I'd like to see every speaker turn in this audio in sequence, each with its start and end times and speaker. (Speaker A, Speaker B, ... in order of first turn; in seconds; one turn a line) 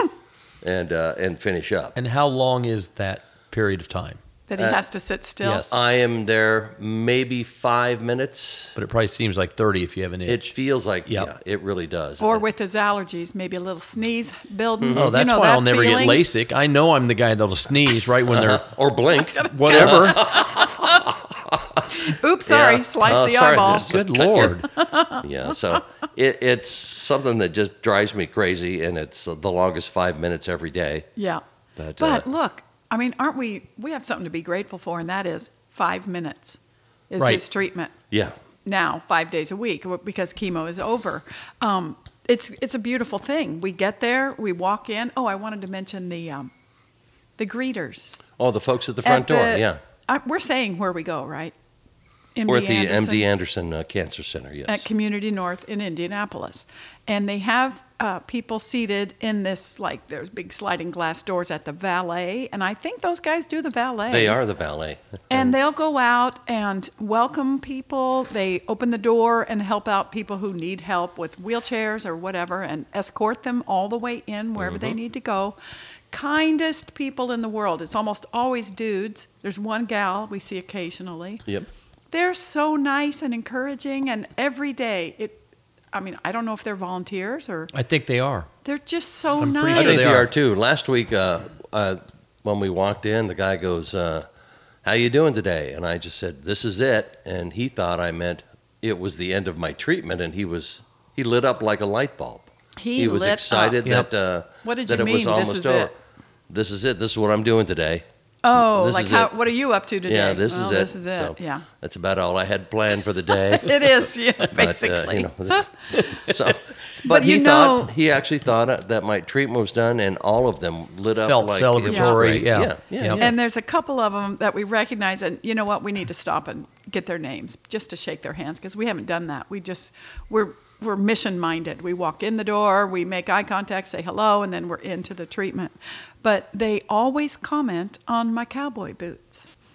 Speaker A: 0.6-1.9
Speaker B: 1.9-4.2
Speaker C: 4.5-5.7
Speaker B: 5.4-5.7
Speaker A: 5.7-8.8
Speaker B: 8.8-10.5
Speaker A: 10.3-12.4
Speaker C: 12.2-16.2
Speaker A: 14.8-15.1
Speaker B: 14.9-18.7
Speaker A: 18.3-24.6
Speaker C: 19.3-21.0
Speaker B: 19.5-20.2
Speaker C: 21.9-23.9
Speaker B: 23.6-24.7
Speaker C: 24.6-25.8
Speaker A: 25.2-31.1
Speaker C: 31.1-31.4
Speaker A: 31.8-32.2
Speaker C: 32.0-36.6
Speaker C: 37.1-37.9
Speaker C: 38.6-46.5
Speaker C: 47.4-48.2
Speaker A: 48.4-49.8
Speaker C: 49.0-51.5
Speaker C: 52.3-53.3
Speaker A: 52.5-54.8
Speaker C: 54.7-64.4
Speaker A: 64.1-65.5
Speaker C: 65.3-75.5
Speaker A: 74.6-75.0
Speaker C: 76.1-81.4
Speaker C: 82.1-85.4
Speaker C: 85.9-87.7
Speaker B: 87.7-88.5
Speaker C: 88.6-90.2
Speaker B: 89.4-90.3
Speaker A: 89.7-94.2
Speaker A: 94.8-105.9
Speaker C: 102.8-103.8
Speaker C: 104.6-105.9
Speaker A: 106.5-108.0
Speaker C: 108.4-111.7
Speaker A: 108.6-109.3
Speaker A: 110.1-123.3
Speaker C: 113.5-115.6
Speaker C: 117.0-117.9
Speaker B: 121.2-123.2
Speaker C: 121.9-122.2
Speaker C: 123.2-139.5